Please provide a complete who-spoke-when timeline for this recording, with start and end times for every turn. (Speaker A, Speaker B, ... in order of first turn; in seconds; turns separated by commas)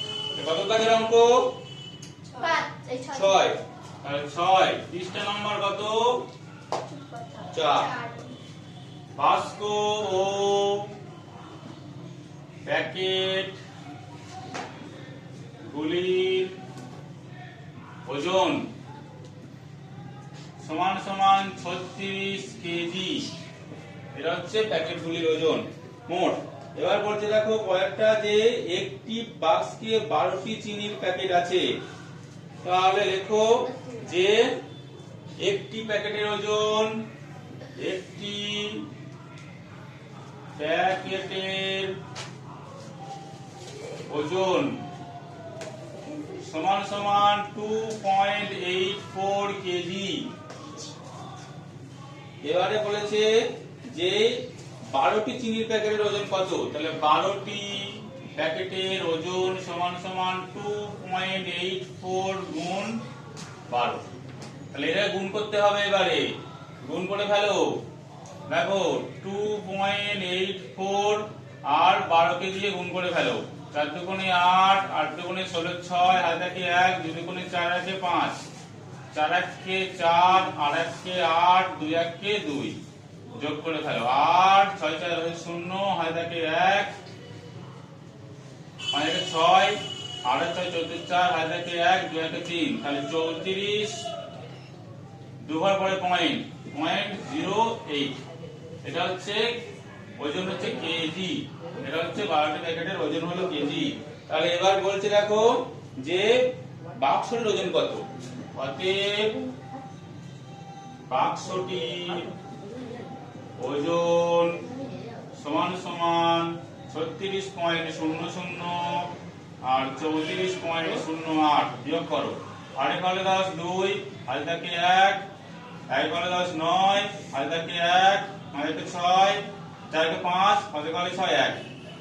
Speaker A: 0.3-1.5, Speaker B: 2.3-3.5, Speaker A: 3.1-6.2, Speaker B: 6.9-8.4, Speaker A: 7.5-7.9, Speaker A: 9.2-10.9, Speaker A: 12.6-13.6, Speaker A: 15.7-16.5, Speaker A: 18.1-18.6, Speaker A: 20.6-23.3, Speaker A: 24.1-31.6, Speaker A: 32.6-34.5, Speaker B: 33.7-34.0, Speaker A: 35.4-37.0, Speaker A: 37.8-38.9, Speaker A: 40.6-42.0, Speaker A: 44.1-44.8, Speaker A: 46.1-50.3, Speaker A: 52.4-53.3, Speaker A: 53.8-54.4, Speaker A: 54.9-63.0, Speaker A: 63.7-64.0, Speaker A: 64.7-66.3, Speaker A: 66.8-67.7, Speaker A: 68.5-78.4, Speaker A: 79.1-82.8, Speaker A: 83.3-86.9, Speaker A: 88.9-94.1, Speaker A: 95.4-98.2, Speaker A: 98.8-99.6, Speaker A: 100.2-106.5, Speaker A: 107.0-109.3, Speaker A: 111.1-112.3, Speaker A: 113.6-114.7, Speaker A: 115.3-119.1, Speaker A: 119.6-125.2, Speaker A: 125.9-131.7